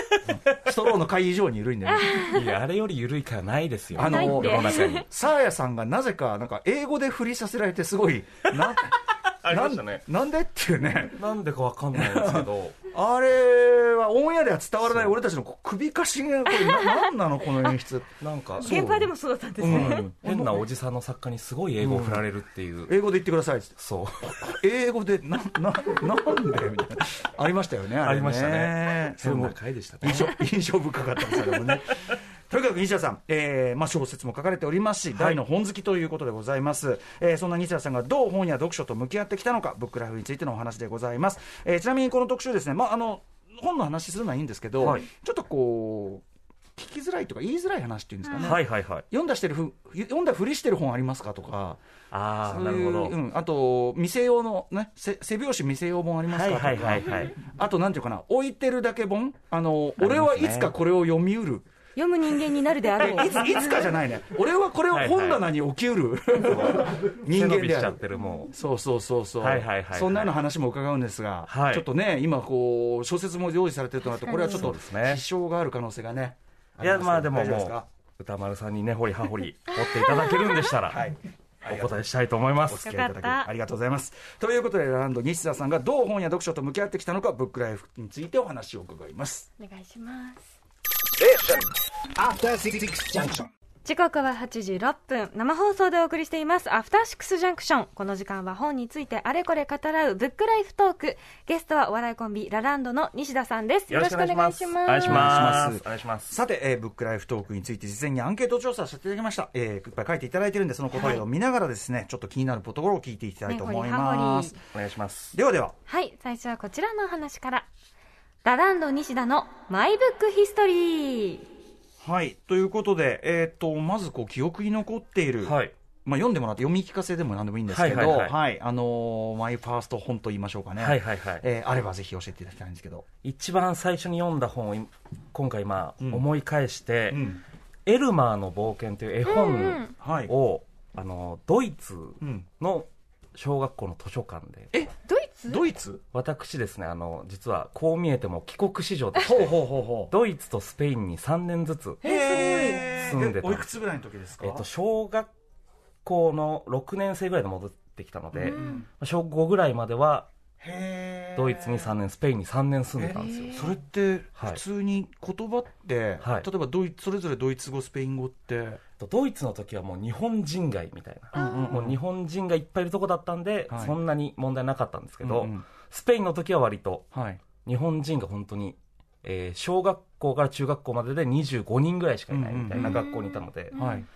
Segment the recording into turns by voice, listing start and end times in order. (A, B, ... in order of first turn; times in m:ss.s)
0:00.2-0:02.2 A
0:01.9-0:02.5 B
0:02.2-0:05.1 C
0:04.0-0:11.2 A
0:04.0-0:05.0 B
0:09.4-0:10.0 C
0:11.1-0:12.8 C
0:11.9-0:20.7 A
0:14.9-0:15.2 C
0:16.5-0:17.8 B
0:18.2-0:18.8 C
0:18.6-0:20.1 B
0:19.6-0:22.9 C
0:21.8-0:22.2 A
0:22.9-0:46.2 A
0:23.8-0:24.6 C
0:28.0-0:30.4 C
0:35.1-0:35.4 C
0:44.8-0:45.1 C
0:46.8-0:51.8 A
0:48.4-0:49.0 C
0:52.1-0:53.2 C
0:52.4-1:01.6 A
0:56.3-0:57.4 C
1:00.0-1:00.7 C
1:02.0-1:03.9 B
1:03.0-1:17.8 A
1:04.9-1:05.4 C
1:06.4-1:08.5 C
1:08.1-1:08.5 B
1:09.4-1:10.4 C
1:11.5-1:11.9 C
1:14.2-1:14.7 B
1:14.4-1:15.2 C
1:16.8-1:21.0 C
1:19.7-1:20.6 B
1:20.9-1:22.0 A
1:21.6-1:22.9 C
1:22.7-1:29.5 A
1:22.8-1:23.5 B
1:29.6-1:30.4 B
1:31.2-1:31.6 A
1:32.2-1:33.4 A
1:33.8-1:45.4 B
1:43.9-1:46.3 C
1:45.0-1:54.6 A
1:50.9-1:51.2 B
1:53.5-1:54.6 B
1:54.7-1:55.4 C
1:55.3-1:55.7 A
1:55.9-1:57.7 B
1:58.4-2:01.4 B
2:02.0-2:13.0 A
2:05.4-2:05.7 C
2:07.7-2:08.4 C
2:10.8-2:11.4 C
2:13.2-2:17.3 C
2:16.0-2:16.2 A
2:17.1-2:17.4 A
2:17.8-2:24.7 C
2:19.2-2:19.9 B
2:20.0-2:20.3 A
2:22.2-2:22.5 A
2:25.0-2:25.7 B
2:25.5-2:26.0 A
2:26.1-2:32.0 C
2:29.2-2:30.1 A
2:32.0-2:34.6 A
2:32.0-2:32.9 B
2:32.9-2:33.8 C
2:34.4-2:35.3 C
2:36.0-2:40.3 C
2:38.3-2:38.8 A
2:38.4-2:38.8 B
2:40.6-2:41.9 A
2:41.4-2:43.7 C
2:43.0-2:48.8 A
2:43.2-2:43.7 B
2:46.2-2:46.5 C
2:49.0-2:57.1 C
2:51.3-2:51.7 B
2:51.4-2:52.0 A
2:53.7-2:53.9 A
2:55.2-2:55.7 A
2:57.1-2:57.4 A
2:57.6-3:03.8 C
3:02.3-3:03.0 A
3:02.8-3:04.0 B
3:03.7-3:04.0 A